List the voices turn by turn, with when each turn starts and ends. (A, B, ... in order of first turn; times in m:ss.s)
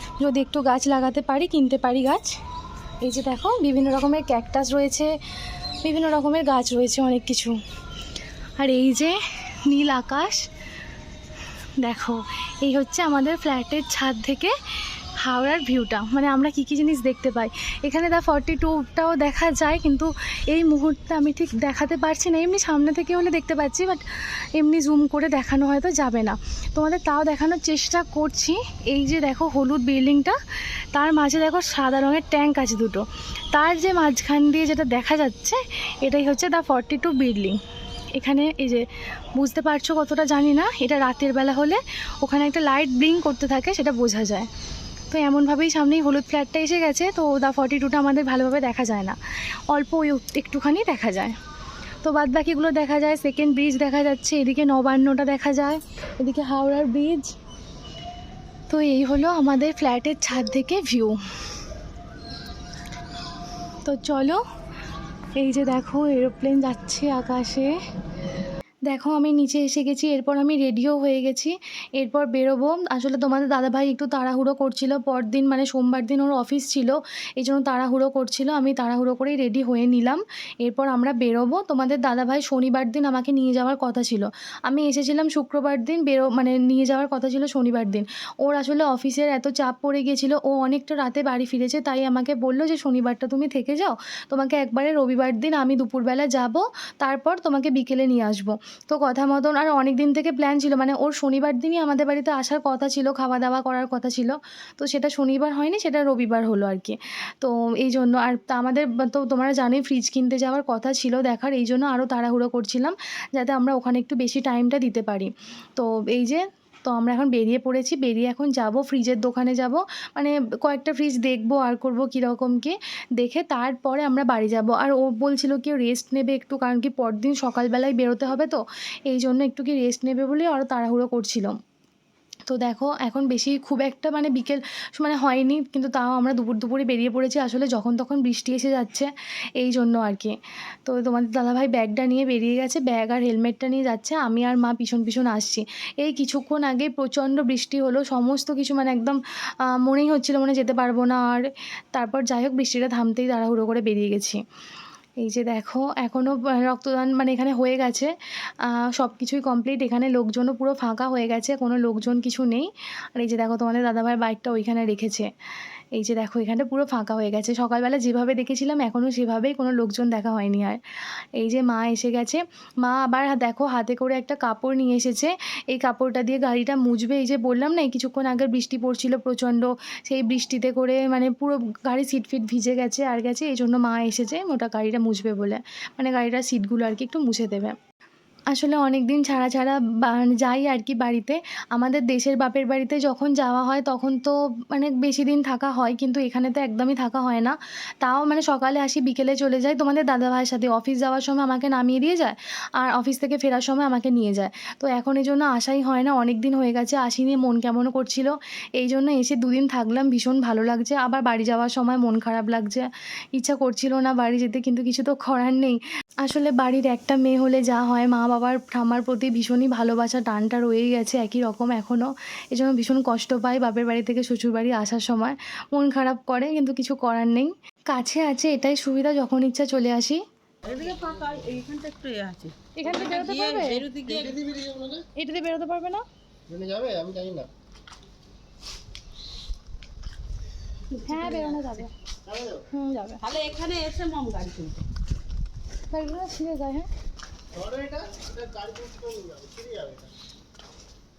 0:00.2-0:02.4 A
0:03.0-0:05.1 A
0:05.8-0:07.6 A
0:08.6-0:10.5 A
0:11.8-0:30.4 A
0:30.9-0:37.6 A
0:38.2-0:44.5 A
0:45.1-0:51.4 A
0:52.0-0:57.4 A
0:58.7-1:01.2 A
1:03.8-1:04.4 A
1:05.4-1:07.7 A
1:08.9-2:11.6 A
2:12.5-2:20.4 A
2:20.9-2:34.4 A
2:35.2-2:38.1 A
2:38.6-2:45.3 A
2:46.0-2:50.8 A
2:51.4-3:07.8 A
3:08.5-3:50.2 A
3:50.8-3:54.7 B
3:52.8-3:53.9 A
3:52.9-3:53.3 C
3:53.9-3:54.8 C
3:55.2-3:56.0 A
3:56.5-3:57.4 C
4:00.9-4:02.0 A
4:02.6-4:03.3 A
4:03.3-4:04.8 B
4:05.9-4:06.9 A
4:08.8-4:09.1 C